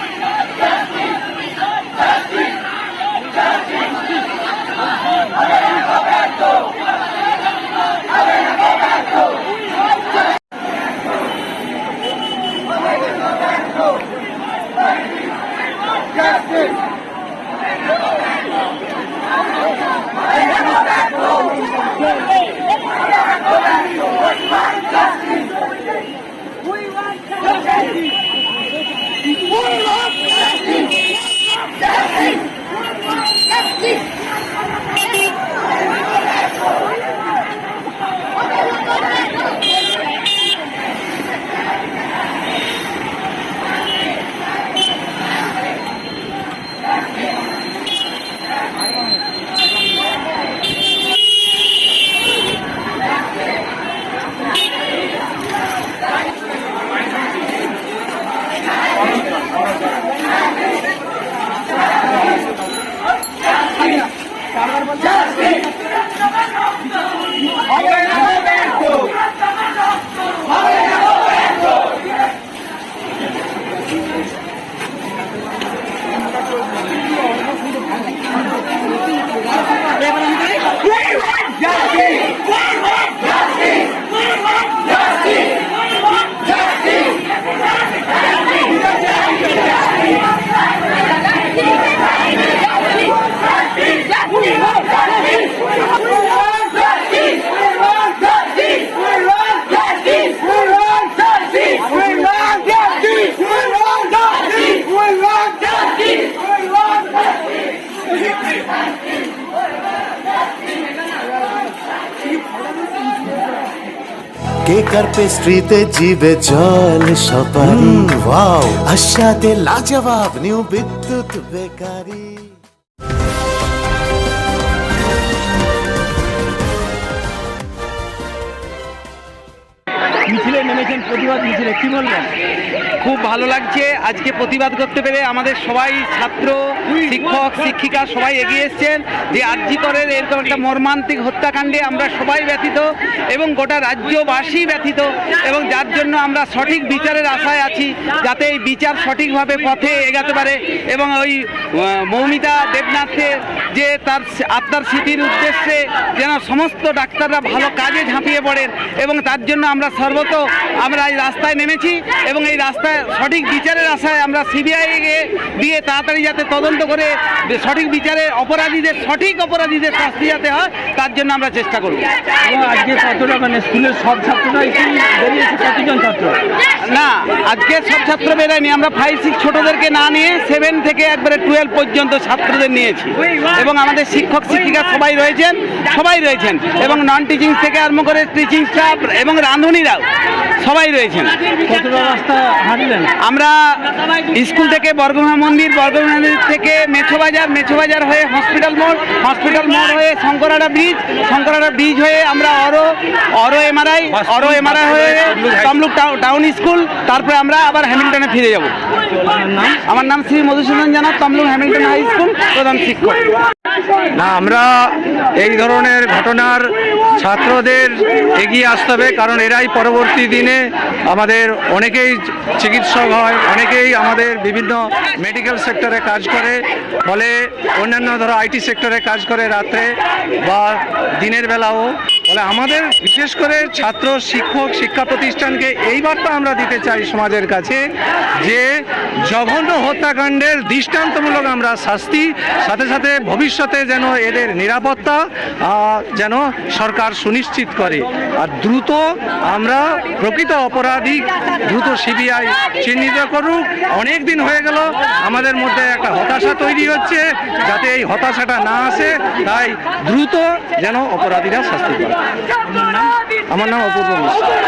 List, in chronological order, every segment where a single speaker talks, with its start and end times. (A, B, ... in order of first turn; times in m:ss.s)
1:42.0-1:42.6 A
1:54.6-2:02.6 B
2:10.2-2:12.3 A
2:13.0-2:52.2 C
2:52.4-2:56.4 A
2:56.7-3:11.5 C
3:11.6-3:13.1 A
3:13.1-3:28.8 C
3:24.2-3:25.7 D
3:29.3-3:29.7 A
3:29.8-3:33.4 C
3:34.1-3:57.8 D
3:58.4-3:58.6 D
3:59.3-4:24.4 D